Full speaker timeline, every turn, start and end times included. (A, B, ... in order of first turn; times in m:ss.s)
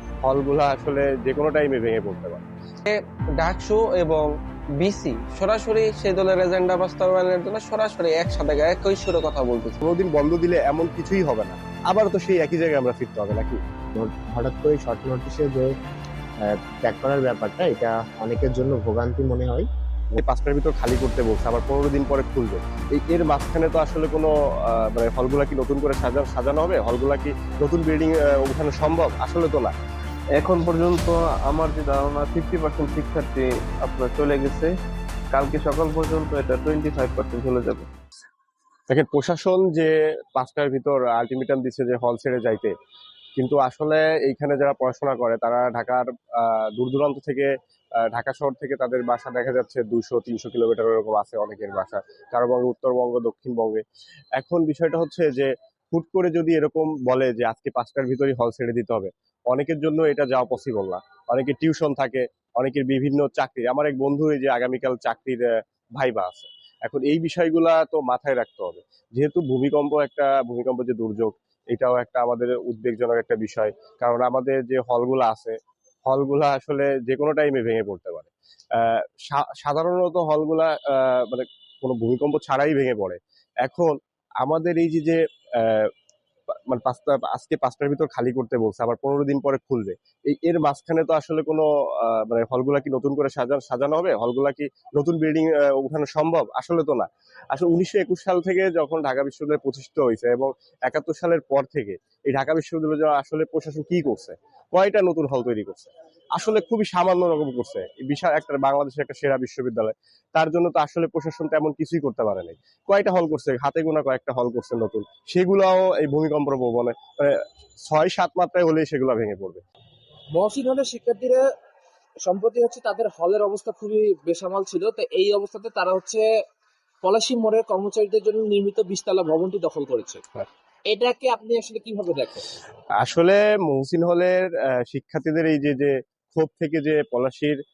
0:00.2-0:02.4 A
0:02.8-0:04.3 B
0:04.8-0:09.8 B
0:09.8-0:13.6 A
0:14.0-0:15.7 C
0:16.4-0:20.2 C
0:20.2-0:29.7 A
0:30.4-0:34.7 D
0:35.3-0:37.9 D
0:38.9-0:42.7 A
0:43.4-0:47.5 A
0:48.0-0:53.8 A
0:54.4-1:25.9 A
1:26.7-1:57.4 A
1:57.9-1:59.6 A
2:00.3-2:01.4 E
2:02.2-2:06.3 E
2:07.0-2:12.4 E
2:13.0-2:17.6 A